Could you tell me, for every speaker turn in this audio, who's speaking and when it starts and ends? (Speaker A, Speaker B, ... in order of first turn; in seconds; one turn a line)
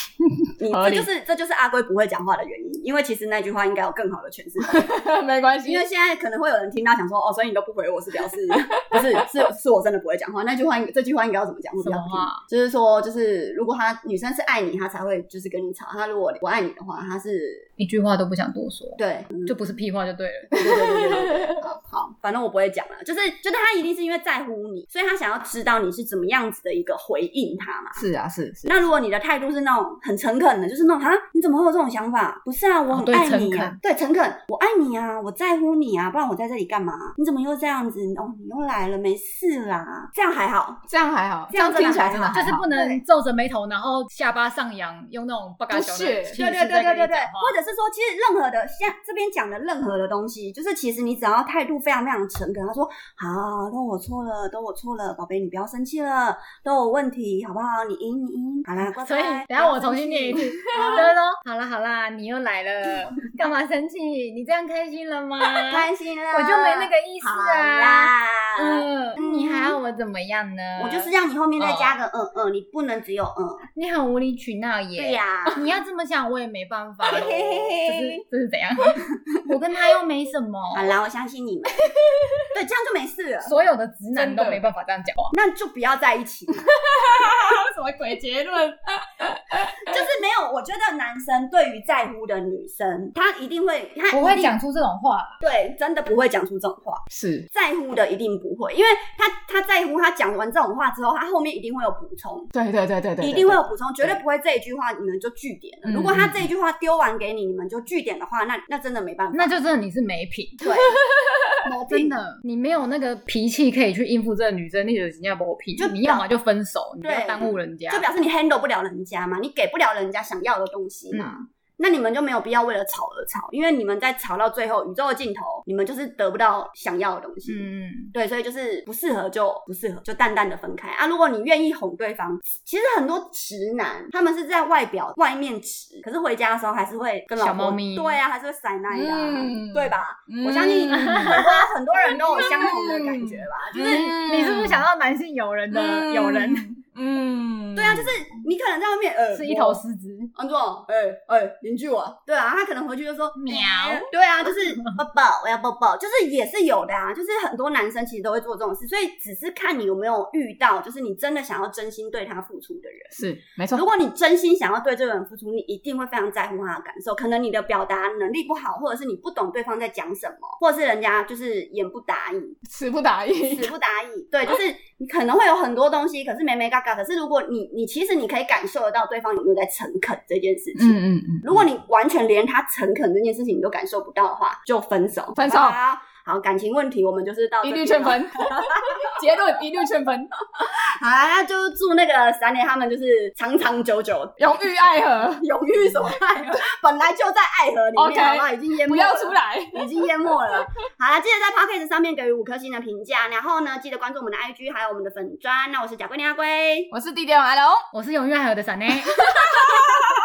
Speaker A: 0.2-1.1
Speaker B: 0.6-4.9
Speaker A: 4.6-5.8
Speaker B: 5.6-17.7
Speaker A: 8.8-9.5
Speaker C: 11.8-12.4
Speaker C: 17.8-20.8
Speaker B: 19.0-19.6
Speaker B: 20.6-28.0
Speaker A: 20.6-21.6
Speaker A: 27.9-28.7
Speaker B: 28.6-40.8
Speaker C: 32.9-33.8
Speaker A: 40.9-42.6
Speaker B: 41.5-43.0
Speaker C: 41.8-47.5
Speaker A: 45.7-46.4
Speaker B: 46.3-61.1
Speaker C: 58.8-72.0
Speaker A: 60.8-61.1
Speaker B: 65.5-69.8
Speaker B: 70.8-73.6
Speaker C: 73.7-80.9
Speaker B: 75.0-75.7
Speaker B: 77.0-78.2
Speaker B: 80.7-81.8
Speaker A: 81.8-82.5
Speaker B: 82.5-83.5
Speaker C: 83.4-85.3
Speaker A: 84.2-84.6
Speaker B: 85.3-86.7
Speaker A: 86.5-90.1
Speaker B: 89.8-94.5
Speaker C: 94.1-95.4
Speaker B: 95.4-102.5
Speaker A: 97.1-97.5
Speaker A: 102.5-104.2
Speaker B: 103.2-109.6
Speaker A: 105.8-106.5
Speaker C: 109.3-110.6
Speaker B: 110.6-111.0
Speaker A: 110.6-111.6
Speaker B: 111.6-112.2
Speaker C: 111.9-118.1
Speaker B: 115.8-116.2
Speaker B: 117.0-144.2
Speaker C: 121.1-121.4
Speaker C: 127.5-128.1
Speaker C: 137.4-138.2
Speaker A: 138.9-141.4
Speaker C: 140.9-141.7
Speaker A: 142.0-144.8
Speaker C: 142.3-142.9
Speaker C: 143.7-146.7
Speaker A: 145.7-148.2
Speaker B: 147.8-149.8
Speaker C: 149.3-150.3
Speaker B: 150.3-163.2
Speaker C: 153.3-154.1
Speaker A: 163.1-163.8
Speaker B: 163.7-172.6
Speaker A: 172.7-173.7
Speaker B: 173.5-189.0
Speaker A: 180.8-181.5
Speaker A: 185.3-185.8
Speaker A: 187.6-190.3
Speaker B: 190.7-194.4
Speaker A: 194.4-195.4
Speaker B: 195.3-206.9
Speaker C: 196.0-196.6
Speaker A: 197.9-200.7
Speaker A: 206.9-207.8
Speaker C: 207.9-209.2
Speaker A: 209.1-210.0